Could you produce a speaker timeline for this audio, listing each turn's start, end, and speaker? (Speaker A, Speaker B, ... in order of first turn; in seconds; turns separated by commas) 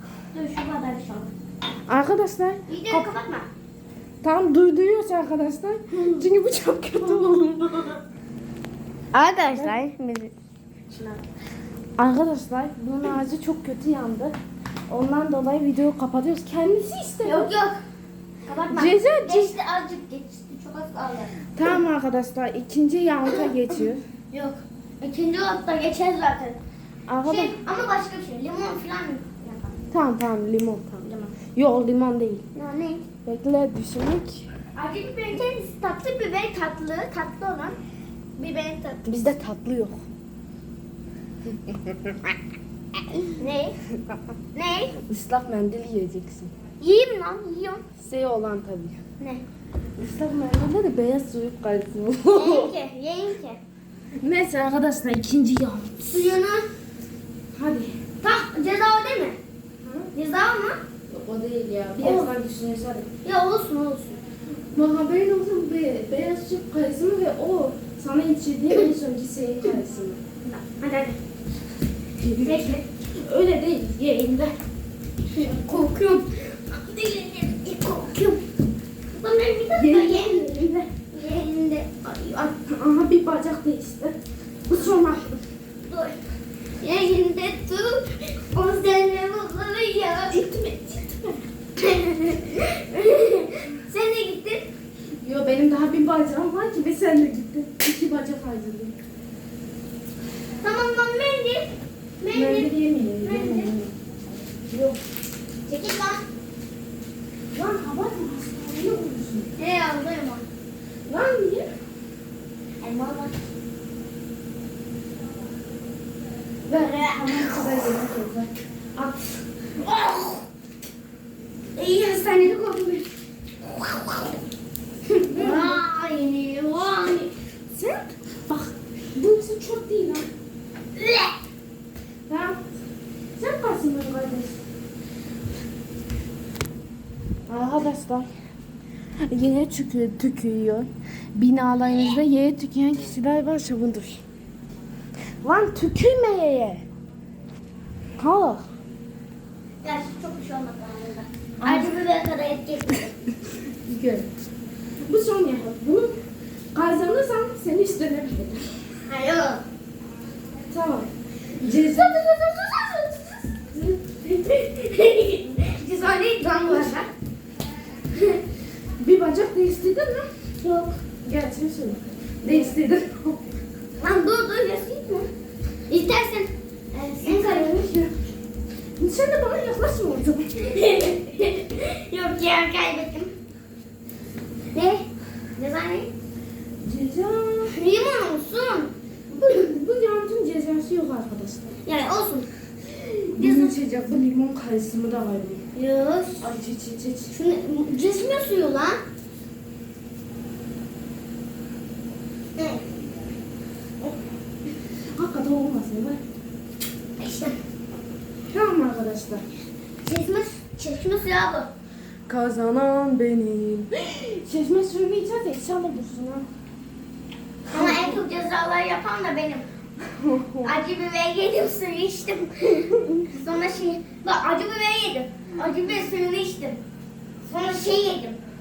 Speaker A: 0.3-1.3, Speaker B: 1.9-3.1, Speaker A: 2.7-3.5, Speaker B: 4.2-8.0, Speaker A: 5.9-6.3, Speaker A: 7.0-7.8, Speaker A: 9.1-10.3, Speaker B: 9.5-9.8, Speaker A: 10.9-11.2, Speaker B: 12.0-14.3, Speaker B: 14.9-17.5, Speaker A: 17.2-17.8, Speaker A: 18.5-21.8, Speaker B: 18.7-19.5, Speaker B: 21.5-24.0, Speaker A: 24.3-26.6, Speaker B: 27.1-27.6, Speaker A: 27.2-29.8, Speaker B: 29.9-32.5, Speaker A: 31.0-31.4, Speaker A: 32.5-33.1, Speaker B: 33.2-34.5, Speaker A: 34.8-37.8, Speaker A: 38.4-39.0, Speaker B: 39.0-40.0, Speaker B: 41.7-42.1, Speaker A: 43.4-43.8, Speaker A: 44.5-45.0, Speaker B: 45.1-46.5, Speaker A: 46.8-47.8, Speaker B: 48.0-49.0, Speaker B: 50.0-52.7, Speaker A: 52.3-53.6, Speaker B: 54.2-56.2, Speaker A: 56.0-56.7, Speaker B: 57.5-58.0, Speaker A: 58.2-59.4, Speaker B: 59.8-60.1, Speaker A: 60.1-60.8, Speaker B: 61.1-63.1, Speaker A: 62.0-62.3, Speaker A: 63.2-64.2, Speaker B: 64.7-70.2, Speaker A: 70.4-71.2, Speaker B: 72.2-74.5, Speaker A: 72.4-72.8, Speaker A: 75.3-78.4, Speaker A: 79.2-82.5, Speaker B: 79.7-80.7, Speaker B: 82.3-84.2, Speaker B: 84.7-85.4, Speaker A: 85.8-86.2, Speaker A: 86.8-90.7, Speaker B: 90.5-91.4, Speaker A: 91.8-94.7, Speaker B: 95.2-98.9, Speaker A: 100.6-103.7, Speaker B: 102.3-104.0, Speaker B: 104.7-105.0, Speaker A: 105.7-106.2, Speaker B: 107.5-109.5, Speaker A: 109.6-110.5, Speaker B: 111.1-111.7, Speaker A: 112.8-113.3, Speaker B: 116.7-119.2, Speaker A: 116.7-117.2, Speaker B: 119.8-120.4, Speaker A: 121.8-123.0, Speaker A: 125.2-127.3, Speaker B: 125.3-125.8, Speaker B: 127.7-130.3, Speaker A: 130.9-131.3, Speaker B: 132.3-132.7, Speaker B: 133.4-134.6, Speaker B: 137.5-138.3, Speaker B: 139.3-144.2, Speaker A: 141.9-142.2, Speaker B: 145.4-146.8, Speaker B: 148.2-148.7, Speaker A: 149.8-153.1, Speaker B: 151.6-152.0, Speaker B: 153.8-154.3, Speaker B: 155.0-156.2, Speaker B: 156.7-158.8, Speaker A: 159.1-159.7, Speaker B: 160.7-164.0, Speaker A: 161.6-163.1, Speaker A: 164.1-167.1, Speaker B: 169.0-170.3, Speaker A: 170.6-171.0, Speaker B: 171.2-173.4, Speaker A: 174.0-175.3, Speaker A: 175.9-177.9, Speaker B: 177.2-178.1, Speaker B: 179.0-180.8, Speaker A: 180.7-183.3, Speaker A: 184.7-186.1, Speaker B: 186.8-187.8, Speaker A: 187.7-188.9, Speaker B: 189.3-191.8, Speaker A: 191.8-192.5, Speaker B: 193.0-195.7, Speaker A: 193.4-193.8, Speaker A: 195.7-196.5, Speaker B: 196.4-197.3, Speaker A: 197.3-199.0, Speaker A: 202.6-202.9, Speaker B: 205.1-206.2, Speaker A: 207.2-207.6, Speaker B: 208.5-209.5, Speaker A: 210.0-211.7, Speaker B: 212.3-216.5, Speaker B: 217.7-218.2, Speaker A: 217.7-219.7, Speaker B: 220.1-220.7, Speaker A: 220.6-226.8, Speaker B: 222.9-223.2, Speaker A: 227.4-228.4